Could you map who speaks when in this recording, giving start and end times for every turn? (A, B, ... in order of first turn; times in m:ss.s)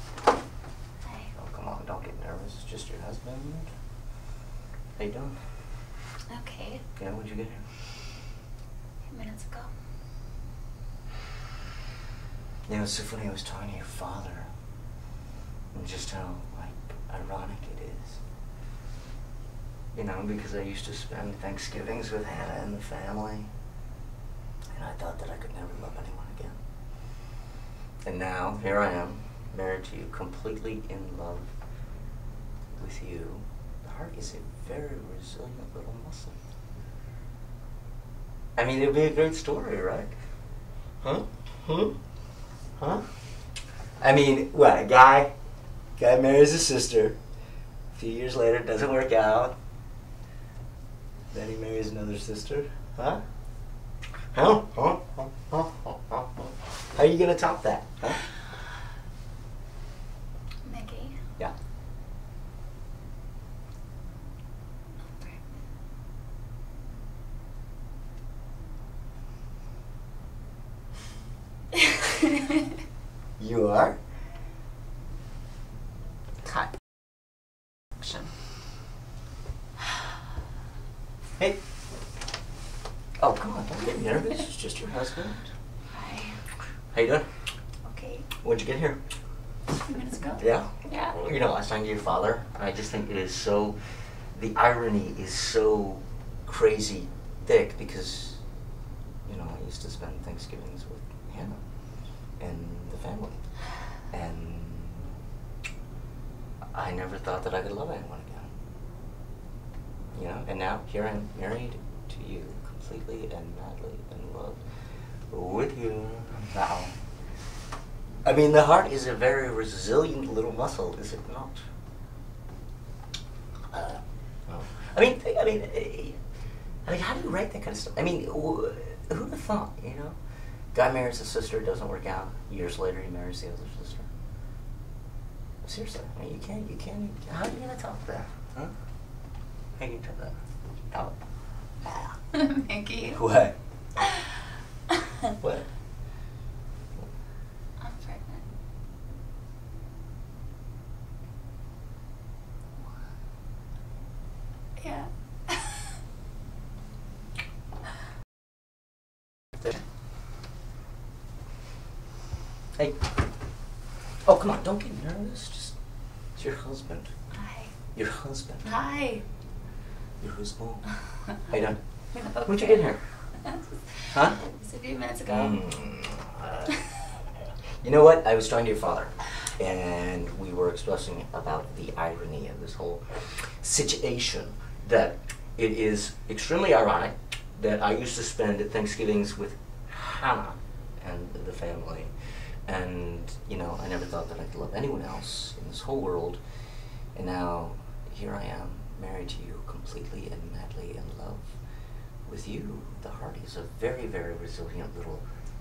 0:01.0-0:01.3 A
0:01.3-0:03.7 B
0:05.0-0:05.4 B
0:06.3-0:06.8 A
0:07.0-0:07.6 B
0:09.0-0:09.7 A
0:12.7-0:14.5 B
0:15.7-0:18.2 B
0:19.9-0:23.5 B
0:24.8-0:26.6 B
0:28.0-0:31.5 B
0:32.8-0:36.4 B
0:38.6-0:40.1 B
0:41.0-0:42.0 B
0:42.8-0:43.1 B
0:44.0-0:45.3 B
0:46.0-0:47.2 B
0:47.9-0:49.6 B
0:51.3-0:53.2 B
0:54.3-0:58.3 B
1:00.6-1:01.2 A
1:05.2-1:05.4 A
1:13.4-1:14.0 B
1:18.0-1:18.3 A
1:23.2-1:25.5 B
1:25.9-1:26.4 A
1:26.9-1:27.3 B
1:27.8-1:28.3 A
1:28.4-1:29.0 B
1:29.7-1:31.2 A
1:30.4-1:33.8 B
1:34.3-1:38.4 B
1:39.2-1:41.6 B
1:42.4-1:43.4 B
1:44.1-1:45.1 B
1:46.7-1:48.5 B
1:50.1-1:54.6 B
1:55.3-1:57.0 B
1:58.2-2:01.6 B
2:03.7-2:06.2 B
2:06.8-2:10.2 B
2:10.7-2:14.1 B
2:15.6-2:18.7 B
2:19.8-2:20.4 B
2:20.9-2:21.2 B
2:21.8-2:22.2 B
2:22.3-2:23.2 A
2:23.1-2:23.5 B
2:24.0-2:24.4 A
2:24.9-2:25.3 A
2:25.4-2:25.7 B
2:27.8-2:28.4 A
2:34.8-2:36.0 A
2:44.3-2:45.8 B
2:46.4-2:47.1 B
2:47.4-2:47.7 A
2:47.9-2:48.7 B
2:48.6-2:49.2 A
2:50.2-2:53.0 B
2:52.2-2:52.8 A
2:53.4-2:55.6 A
2:54.1-2:54.4 B
2:55.3-2:56.7 B
2:56.7-2:57.1 A
2:57.8-3:12.1 B
3:12.7-3:16.4 B
3:17.2-3:21.6 B
3:22.3-3:25.2 B